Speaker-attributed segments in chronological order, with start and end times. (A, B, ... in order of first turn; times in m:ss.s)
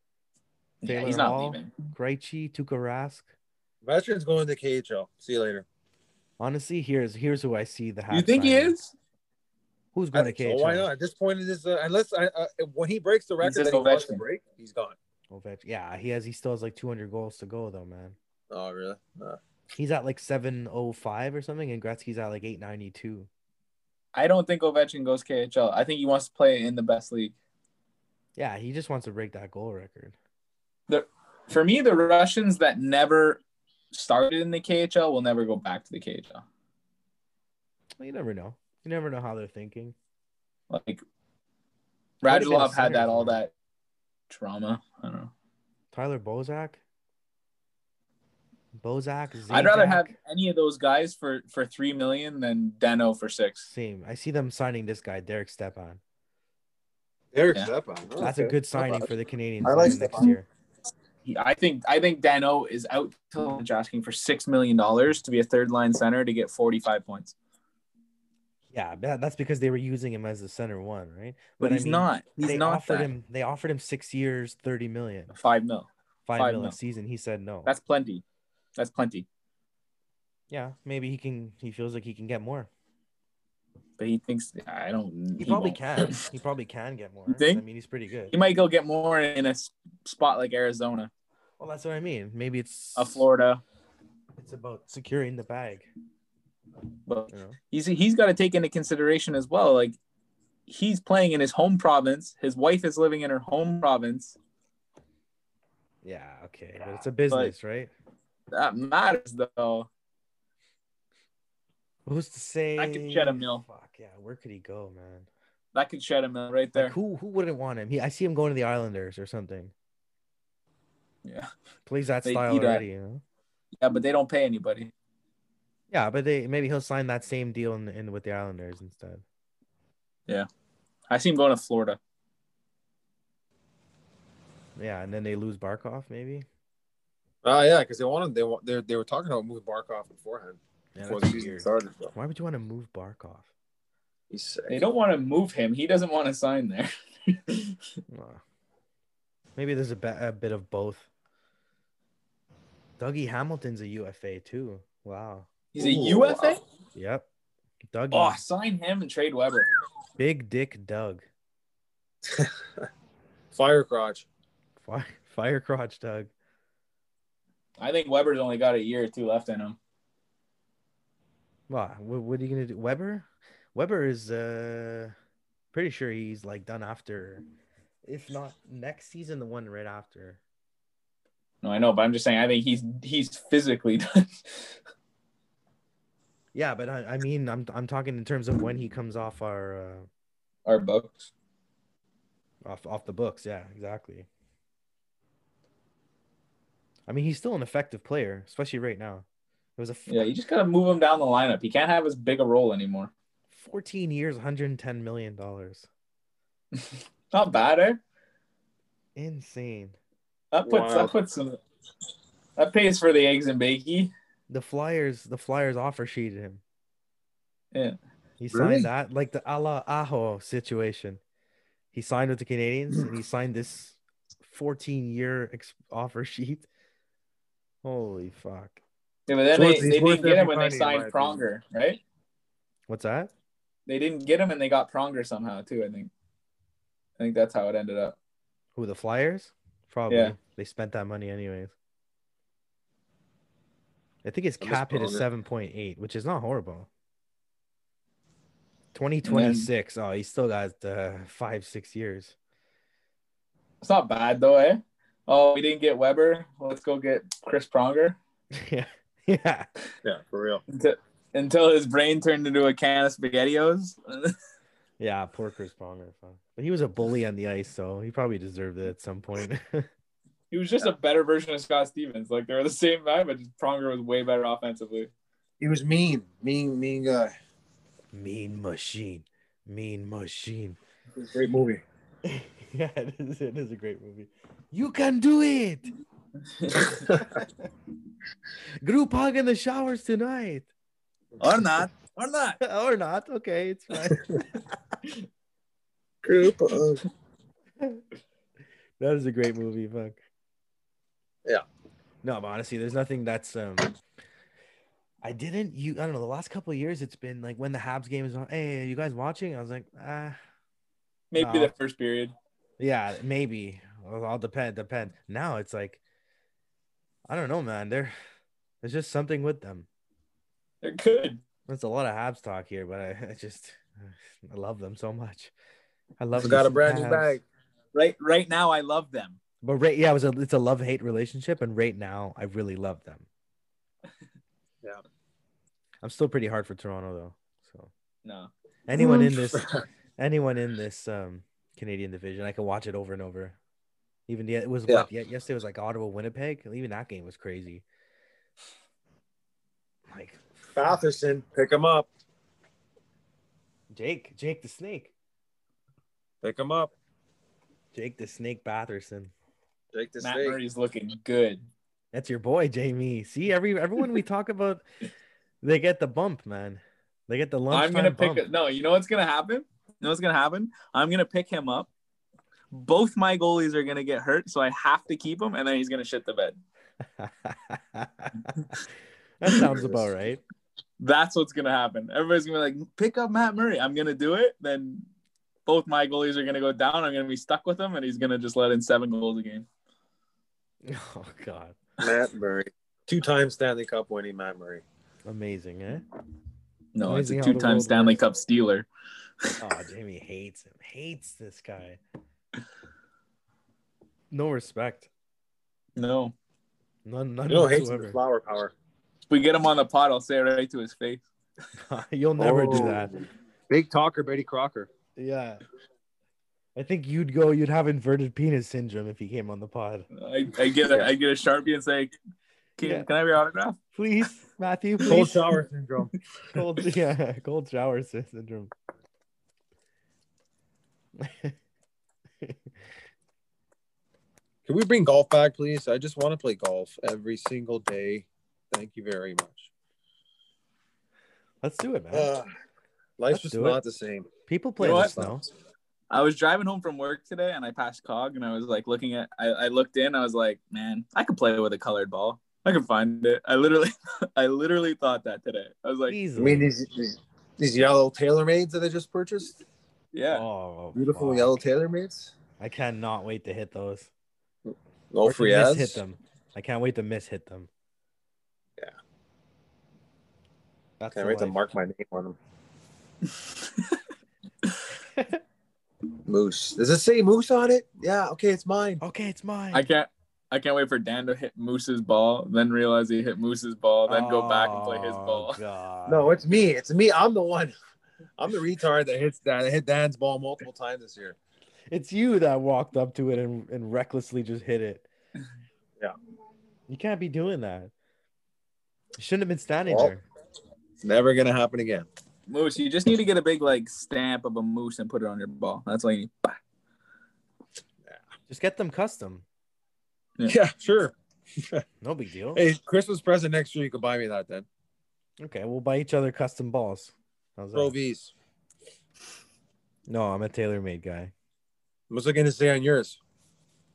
0:00.8-0:01.8 A
0:00.8-0:03.3 B
0:03.8-0:05.6 C
0:06.4-0:08.7 B
0:08.1-0:09.0 A
0:09.9-0:10.9 B
0:10.1-0:15.0 C
0:13.4-0:14.2 A
0:15.3-0:18.2 B
0:18.5-0:19.4 C
0:19.8-0:23.3 B
0:24.2-0:27.4 A
0:28.4-0:30.2 B
0:30.9-0:33.4 A
0:33.9-0:36.4 A
0:38.0-0:40.0 B
0:40.7-0:41.0 A
0:42.2-0:43.5 A
0:42.2-0:43.4 B
0:44.3-0:45.3 A
0:45.9-0:46.8 B
0:48.7-0:50.1 B
0:49.5-0:53.7 A
0:53.7-0:56.0 B
0:57.3-0:59.1 C
0:58.2-1:00.5 B
0:59.6-1:00.3 C
1:01.2-1:07.4 A
1:08.7-1:15.3 B
1:11.6-1:13.1 A
1:15.3-1:16.8 A
1:16.3-1:17.7 B
1:17.7-1:18.2 A
1:18.8-1:19.3 A
1:20.5-1:22.7 B
1:24.0-1:26.2 A
1:25.4-1:28.3 B
1:27.3-1:27.6 A
1:28.3-1:31.1 A
1:31.6-1:33.3 B
1:33.0-1:33.6 A
1:34.4-1:35.9 B
1:37.1-1:40.0 A
1:37.3-1:37.6 B
1:40.7-1:44.4 A
1:46.0-1:47.9 B
1:48.5-1:49.9 A
1:52.1-1:55.3 B
1:52.8-1:53.6 A
1:55.7-1:57.0 A
1:56.8-1:59.7 B
2:01.2-2:01.5 A
2:01.9-2:03.2 B
2:02.2-2:02.8 A
2:03.8-2:04.9 A
2:05.9-2:09.2 B
2:11.1-2:12.0 A
2:14.8-2:16.5 B
2:17.4-2:22.1 C
2:21.0-2:23.5 B
2:24.3-2:24.8 C
2:24.7-2:27.8 A
2:28.1-2:28.4 B
2:29.6-2:31.1 B
2:33.0-2:35.5 B
2:35.7-2:36.6 A
2:35.8-2:36.6 C
2:37.0-2:37.3 B
2:37.9-2:38.4 B
2:38.1-2:39.7 A
2:40.2-2:41.2 B
2:43.5-2:44.3 C
2:44.8-2:46.3 B
2:47.8-2:49.8 A
2:51.7-2:55.1 B
2:55.7-2:57.4 B
2:58.0-3:00.4 B
3:01.6-3:04.8 A
3:06.5-3:10.1 B
3:10.7-3:11.3 A
3:12.6-3:14.3 B
3:17.1-3:19.3 B
3:19.8-3:20.3 B
3:20.1-3:23.1 A
3:23.5-3:25.9 B
3:26.8-3:28.0 A
3:29.2-3:30.0 B
3:30.5-3:31.6 A
3:30.7-3:31.1 C
3:32.6-3:34.1 A
3:34.5-3:36.6 B
3:38.4-3:41.2 B
3:38.5-3:38.9 C
3:41.9-3:46.7 B
3:47.8-3:48.8 B
3:49.3-3:52.0 A
3:49.5-3:51.4 C
3:52.9-3:53.3 B
3:53.9-3:56.1 A
3:57.2-3:58.2 A
3:58.8-4:01.7 B
4:00.1-4:00.4 A
4:04.2-4:06.9 B
4:04.6-4:05.2 C
4:08.9-4:12.4 B
4:09.2-4:09.7 A
4:13.8-4:18.2 A
4:18.5-4:19.7 B
4:20.0-4:20.6 C
4:20.7-4:24.4 A
4:25.0-4:29.9 B
4:30.5-4:35.1 A
4:35.6-4:37.3 C
4:38.1-4:40.8 B
4:41.2-4:41.8 C
4:42.2-4:45.9 B
4:46.6-4:47.0 A
4:48.8-4:50.7 B
4:51.4-4:52.6 A
4:52.6-4:54.3 B
4:56.2-4:57.0 C
4:59.0-5:00.2 B
5:02.2-5:03.9 B
5:05.2-5:10.4 B
5:11.3-5:12.3 A
5:11.4-5:11.7 B
5:12.8-5:16.0 B
5:17.3-5:18.1 B
5:18.8-5:19.9 B
5:20.8-5:21.4 A
5:21.7-5:25.5 B
5:26.2-5:27.4 B
5:26.4-5:27.4 C
5:27.9-5:29.4 A
5:29.6-5:33.3 B
5:36.0-5:37.9 B
5:38.2-5:38.5 A
5:38.9-5:43.6 B
5:38.9-5:39.8 C
5:44.3-5:47.8 B
5:50.1-5:51.0 B
5:50.8-5:52.1 C
5:53.9-5:55.1 B
5:56.4-5:56.9 C
5:57.9-5:59.3 B
5:59.9-6:00.6 C
6:00.2-6:01.6 A
6:02.1-6:04.8 B
6:05.6-6:08.4 B
6:07.7-6:11.9 A
6:12.7-6:16.6 A
6:17.2-6:18.7 B
6:19.4-6:20.4 B
6:19.6-6:20.1 C
6:21.0-6:25.1 A
6:25.7-6:29.7 A
6:30.9-6:31.8 B
6:32.0-6:34.8 C
6:35.2-6:36.0 B
6:37.0-6:38.9 A
6:37.0-6:38.2 B
6:39.6-6:42.0 B
6:44.3-6:45.1 B
6:46.0-6:46.3 A
6:47.0-6:48.2 B
6:47.5-6:48.7 C
6:49.3-6:51.3 A
6:51.8-6:53.1 B
6:52.4-6:54.9 C
6:55.2-6:55.6 B
6:56.8-7:00.1 B
7:00.1-7:02.1 A
7:02.8-7:03.8 A
7:02.8-7:03.1 B
7:03.9-7:05.4 B
7:05.0-7:06.1 C
7:06.5-7:08.7 B
7:11.2-7:11.6 B
7:12.4-7:12.7 B
7:14.7-7:19.7 C
7:21.6-7:22.3 B
7:22.1-7:22.5 C
7:23.2-7:24.3 C
7:23.3-7:23.8 B
7:24.5-7:25.5 B
7:24.8-7:25.1 A
7:24.9-7:25.4 C
7:26.1-7:36.2 A
7:36.1-7:36.7 B
7:36.4-7:39.6 C
7:40.1-7:40.5 A
7:40.3-7:41.6 B
7:41.0-7:42.3 C
7:42.6-7:44.1 B
7:44.7-7:46.0 C
7:45.2-7:47.7 B
7:51.0-7:51.7 B
7:51.1-7:52.4 C
7:53.3-7:54.0 A
7:55.0-7:55.4 B
7:56.3-7:59.0 C
7:59.0-7:59.9 B
7:59.7-8:05.6 A
8:04.1-8:06.4 B
8:06.1-8:07.7 C
8:08.4-8:11.4 C
8:11.9-8:15.1 B
8:16.9-8:17.9 B
8:19.2-8:20.2 B
8:19.9-8:20.1 C
8:21.0-8:22.1 C
8:22.5-8:26.6 A
8:28.5-8:29.4 B
8:30.5-8:31.1 C
8:32.0-8:32.6 B
8:32.6-8:34.7 C
8:35.4-8:37.9 B
8:37.7-8:38.3 C
8:40.1-8:41.3 B
8:42.1-8:43.2 C